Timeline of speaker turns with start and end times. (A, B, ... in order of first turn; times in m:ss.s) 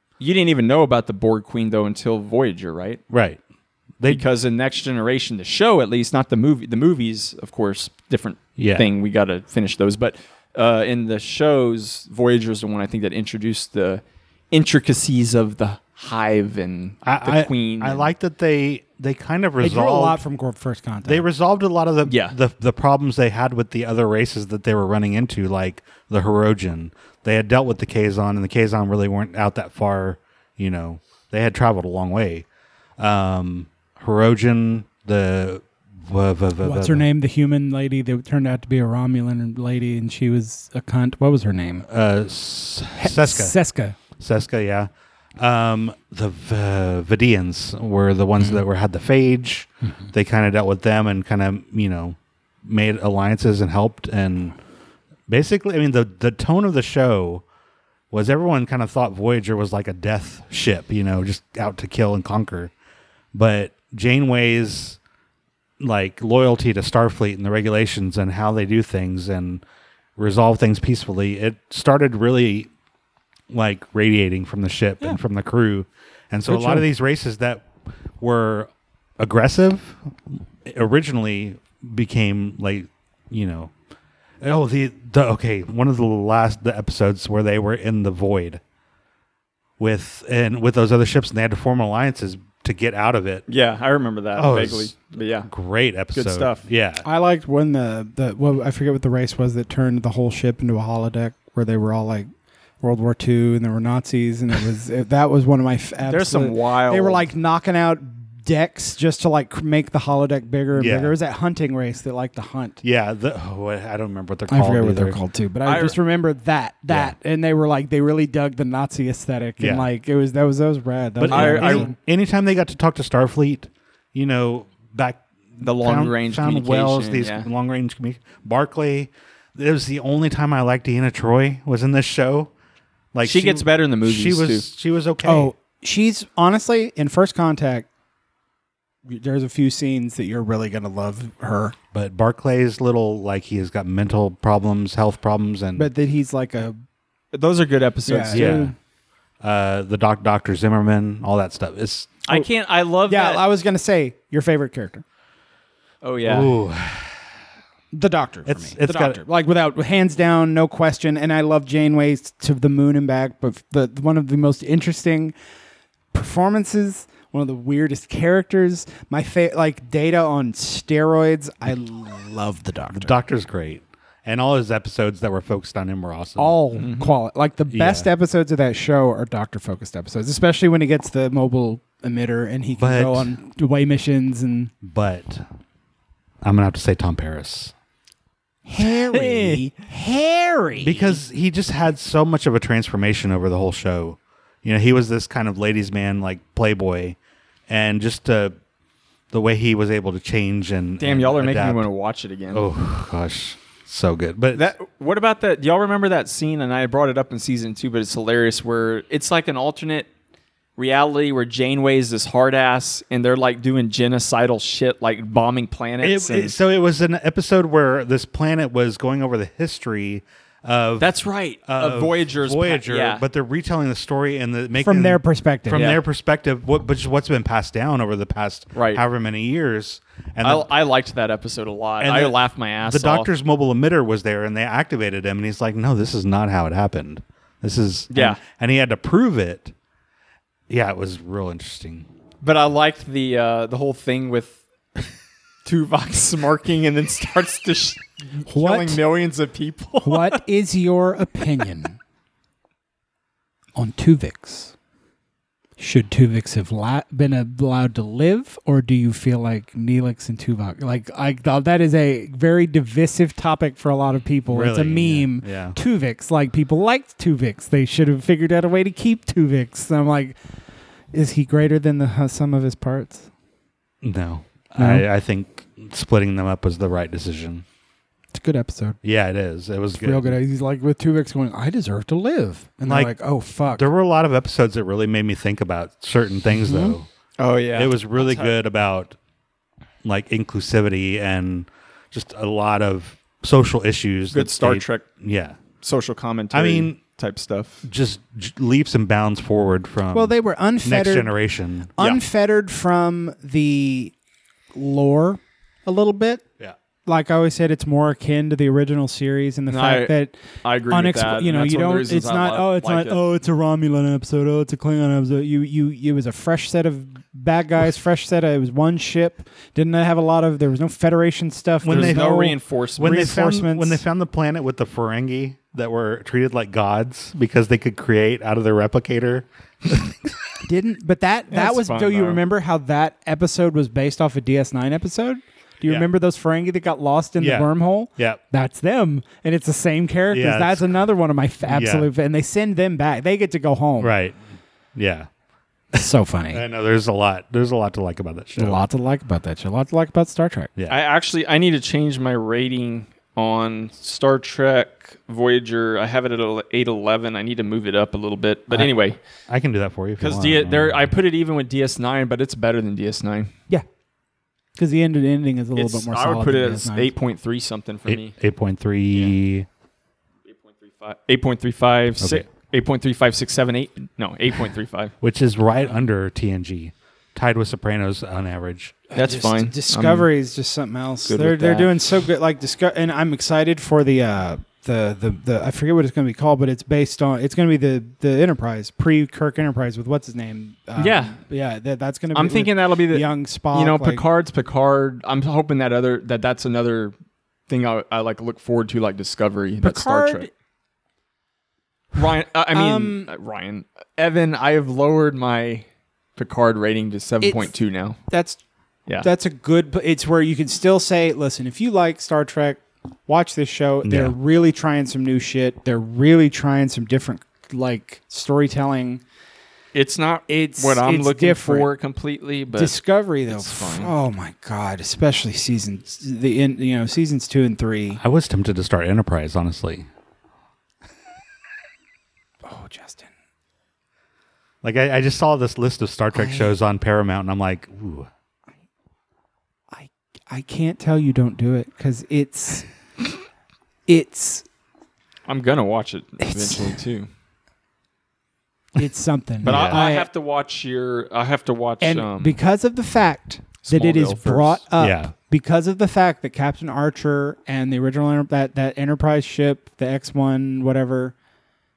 0:00.2-0:03.0 A
0:03.1-0:03.4 B
0:04.1-0:18.1 A
0:08.6-0:08.9 B
0:17.0-0:20.2 B
0:19.6-0:21.2 C
0:21.0-0:32.4 B
0:22.0-0:22.4 A
0:33.0-0:37.0 B
0:36.6-0:41.9 C
0:41.9-0:43.6 B
0:43.0-0:44.0 C
0:44.2-0:54.6 B
0:55.3-0:57.4 B
0:58.1-1:02.7 B
1:03.3-1:05.0 B
1:05.8-1:09.6 B
1:10.2-1:12.7 B
1:13.5-1:17.7 B
1:16.5-1:16.8 C
1:18.2-1:23.7 B
1:24.4-1:28.6 B
1:29.8-1:33.4 B
1:33.5-1:35.5 A
1:34.3-1:37.0 B
1:36.1-1:36.6 A
1:37.0-1:42.3 C
1:42.8-1:52.8 C
1:46.0-1:47.2 A
1:50.7-1:51.1 B
1:52.8-1:55.2 B
1:54.5-2:02.0 C
1:55.6-1:56.0 A
1:56.9-1:57.1 B
1:59.6-1:59.9 B
2:01.2-2:12.5 B
2:01.3-2:01.9 A
2:05.6-2:07.5 A
2:13.1-2:15.5 B
2:13.2-2:14.6 A
2:15.2-2:17.9 C
2:19.0-2:21.7 C
2:21.9-2:25.9 B
2:25.7-2:26.8 C
2:27.3-2:28.7 A
2:28.0-2:28.7 C
2:28.3-2:28.7 B
2:29.4-2:32.2 B
2:32.2-2:33.4 A
2:33.1-2:35.0 C
2:36.0-2:36.5 A
2:36.2-2:37.2 B
2:37.9-2:45.3 C
2:38.4-2:39.2 B
2:46.1-2:53.1 C
2:52.9-2:56.6 B
2:56.4-3:04.7 C
2:56.8-2:57.1 A
2:57.7-2:58.1 B
3:02.8-3:03.3 B
3:04.8-3:05.4 B
3:06.4-3:07.7 B
3:08.6-3:11.2 C
3:09.1-3:09.7 A
3:10.8-3:18.6 B
3:19.3-3:21.8 B
3:21.0-3:22.6 A
3:22.5-3:24.7 B
3:24.5-3:30.1 A
3:30.8-3:36.6 A
3:36.0-3:41.1 B
3:41.0-3:43.2 A
3:41.6-3:50.7 B
3:44.8-3:45.9 C
3:45.7-3:46.0 A
3:48.7-3:49.0 A
3:50.4-3:53.3 A
3:52.0-3:59.7 B
3:58.1-3:58.4 A
4:00.7-4:02.1 B
4:02.4-4:04.6 A
4:05.6-4:10.4 A
4:08.4-4:09.0 C
4:10.0-4:12.0 C
4:13.8-4:14.7 C
4:15.8-4:30.4 C
4:24.5-4:25.8 B
4:31.1-4:33.3 C
4:34.0-4:37.6 B
4:34.8-4:35.0 C
4:38.3-4:39.0 C
4:39.0-4:40.4 B
4:40.0-4:43.9 C
4:42.8-4:47.1 B
4:46.5-4:46.9 C
4:47.4-4:48.6 A
4:47.7-4:49.2 B
4:50.0-4:55.6 B
4:54.3-4:55.1 A
4:55.8-4:57.8 A
4:56.5-4:57.0 B
4:57.8-5:01.9 B
5:00.1-5:01.3 C
5:02.0-5:04.1 C
5:04.7-5:06.4 C
5:07.0-5:24.0 C
5:09.7-5:13.2 A
5:21.8-5:22.4 B
5:21.9-5:23.2 A
5:23.0-5:30.3 B
5:30.6-5:44.1 C
5:31.5-5:32.4 A
5:37.4-5:38.4 B
5:40.3-5:41.0 B
5:41.7-5:42.1 B
5:44.0-5:44.4 B
5:44.9-5:45.3 B
5:45.9-5:46.6 C
5:46.5-5:48.8 B
5:48.6-5:50.7 C
5:50.9-5:59.2 A
5:59.5-6:01.1 B
6:00.2-6:03.5 A
6:04.8-6:07.1 C
6:05.8-6:08.3 A
6:08.1-6:09.7 B
6:10.5-6:15.1 A
6:12.2-6:12.4 B
6:15.2-6:19.0 B
6:19.1-6:34.2 C
6:19.1-6:20.3 A
6:21.2-6:22.0 A
6:31.0-6:31.4 A
6:32.3-6:37.1 A
6:37.7-6:40.5 A
6:39.8-6:40.5 C
6:42.1-6:48.2 A
6:42.7-6:43.3 C
6:47.4-6:47.7 C
6:48.3-6:48.6 C
6:49.2-6:59.2 C
6:54.0-6:54.4 B
6:59.9-7:04.1 A
7:00.5-7:01.9 C
7:02.7-7:08.2 C
7:08.2-7:10.0 B
7:12.6-7:13.3 C
7:14.8-7:18.3 B
7:16.3-7:16.7 C
7:19.9-7:22.9 C
7:24.1-7:24.6 C
7:25.5-7:27.3 A
7:26.4-7:26.9 C
7:29.0-7:30.3 C
7:29.6-7:30.0 B
7:29.6-7:32.6 A
7:32.0-7:41.3 C
7:33.8-7:34.8 A
7:35.0-7:35.3 B